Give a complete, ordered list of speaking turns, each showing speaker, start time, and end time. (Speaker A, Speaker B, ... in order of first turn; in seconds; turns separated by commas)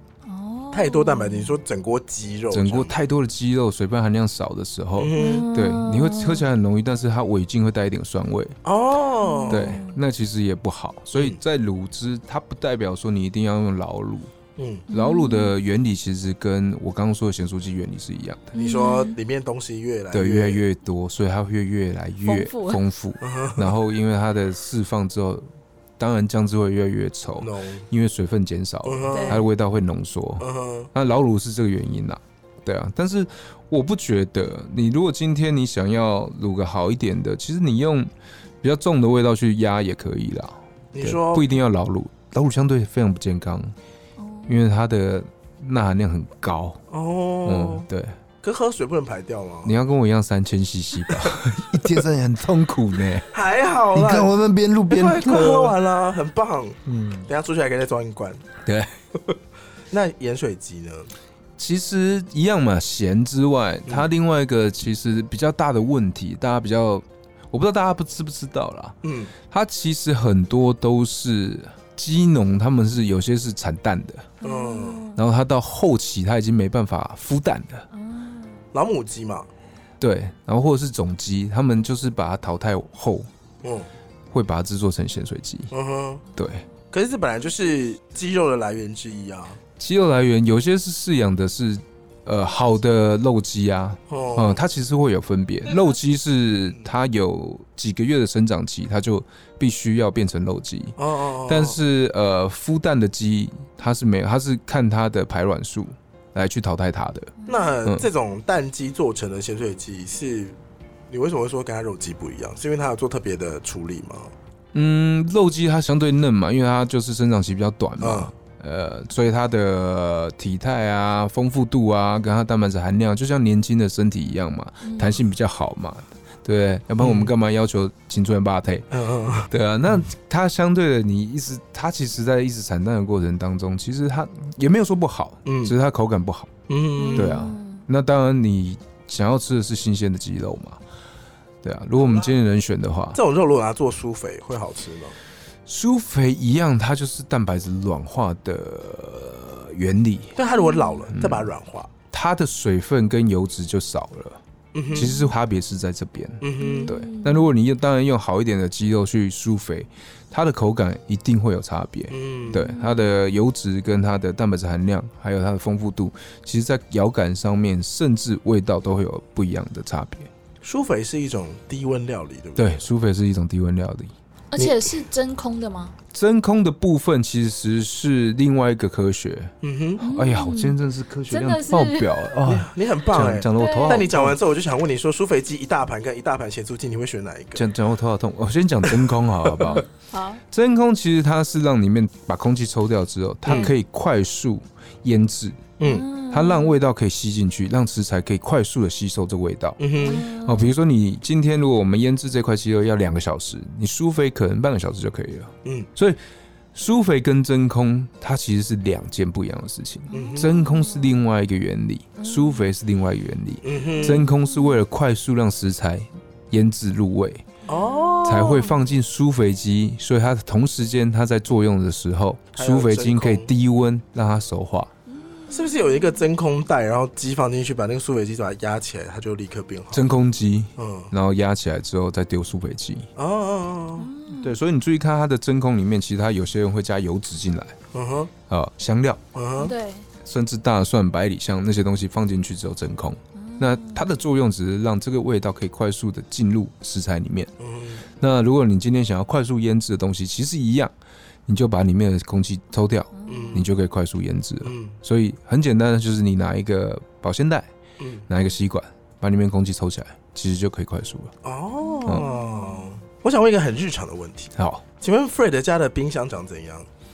Speaker A: 0.2-1.6, Speaker B: 0.7-2.9, Speaker C: 2.5-8.6, Speaker B: 5.0-5.5, Speaker A: 5.2-6.4, Speaker B: 8.6-9.8, Speaker A: 9.2-10.0, Speaker C: 9.5-14.3, Speaker B: 14.6-14.8, Speaker A: 14.9-15.5, Speaker C: 14.9-18.5, Speaker B: 18.5-20.6, Speaker A: 18.5-19.1, Speaker C: 20.1-25.4, Speaker A: 22.2-22.8, Speaker B: 23.2-23.7, Speaker C: 26.0-38.1, Speaker B: 27.4-27.9, Speaker B: 28.8-29.4, Speaker A: 29.1-29.4, Speaker B: 30.4-30.9, Speaker C: 38.6-43.7, Speaker B: 40.9-41.5, Speaker A: 44.2-44.6, Speaker C: 44.5-46.8, Speaker B: 46.9-47.9, Speaker C: 47.5-48.1, Speaker B: 48.4-49.7, Speaker C: 49.6-53.3, Speaker B: 53.3-54.3, Speaker C: 53.9-55.8, Speaker B: 54.9-58.4, Speaker C: 56.9-57.3, Speaker B: 59.9-61.1, Speaker C: 61.6-74.3, Speaker B: 69.0-69.3, Speaker A: 74.4-75.2, Speaker B: 74.4-75.0, Speaker C: 75.1-77.9, Speaker A: 77.9-78.6, Speaker B: 78.7-79.5, Speaker C: 80.0-83.3, Speaker B: 83.6-83.9, Speaker C: 84.3-85.7, Speaker B: 85.7-86.2, Speaker C: 86.3-86.6, Speaker B: 86.9-89.6, Speaker C: 89.8-107.3, Speaker B: 94.1-94.6, Speaker B: 101.0-101.8, Speaker A: 107.4-107.7, Speaker B: 107.5-110.6, Speaker B: 111.1-114.3, Speaker C: 114.7-128.9, Speaker B: 118.0-118.3, Speaker A: 124.8-125.2, Speaker B: 127.0-127.3, Speaker B: 128.9-129.5, Speaker C: 129.5-136.5, Speaker B: 135.4-135.7, Speaker B: 136.7-137.4, Speaker A: 137.0-137.8, Speaker C: 137.1-140.8, Speaker C: 141.6-143.2, Speaker B: 142.0-142.3, Speaker B: 143.1-145.2, Speaker C: 145.7-150.3, Speaker B: 150.3-151.9, Speaker A: 150.4-151.0, Speaker C: 151.1-151.5, Speaker C: 152.1-154.4, Speaker B: 154.7-155.2, Speaker A: 154.9-155.3, Speaker C: 154.9-170.3, Speaker B: 156.4-156.9, Speaker A: 156.6-157.5, Speaker B: 162.1-162.7, Speaker A: 162.5-163.1, Speaker B: 170.6-172.8, Speaker C: 172.6-174.1, Speaker A: 174.5-175.9, Speaker B: 174.6-174.9, Speaker C: 176.1-184.3, Speaker B: 179.6-180.0, Speaker A: 180.0-180.8, Speaker A: 181.3-182.1, Speaker B: 182.4-187.7, Speaker A: 183.6-184.1, Speaker C: 187.5-189.8, Speaker A: 189.6-190.4, Speaker C: 190.5-195.7, Speaker B: 193.4-193.7, Speaker B: 195.8-196.1, Speaker A: 195.8-196.8, Speaker C: 196.3-206.2, Speaker B: 199.8-200.3, Speaker A: 200.0-200.7, Speaker C: 206.7-217.4, Speaker A: 210.1-211.2, Speaker B: 210.1-210.5, Speaker A: 212.2-212.7, Speaker B: 213.6-214.3, Speaker A: 213.9-214.8, Speaker B: 217.7-218.7, Speaker A: 217.7-218.8, Speaker C: 218.2-224.9, Speaker B: 222.5-223.5, Speaker A: 225.2-226.2, Speaker B: 225.5-230.1, Speaker C: 229.9-233.1, Speaker B: 230.8-231.1, Speaker B: 233.2-234.1, Speaker A: 234.0-234.6, Speaker C: 234.4-237.8, Speaker B: 237.9-238.3, Speaker C: 238.5-239.2, Speaker B: 239.3-239.7, Speaker A: 239.6-240.0, Speaker C: 240.2-247.5, Speaker A: 243.3-244.1, Speaker B: 247.6-248.0, Speaker C: 248.2-250.9, Speaker C: 251.5-257.7, Speaker A: 253.1-253.6, Speaker B: 253.3-253.7, Speaker B: 254.6-254.9, Speaker B: 258.0-258.2, Speaker C: 258.3-261.3, Speaker B: 261.4-266.9, Speaker A: 261.8-262.9, Speaker C: 264.6-264.8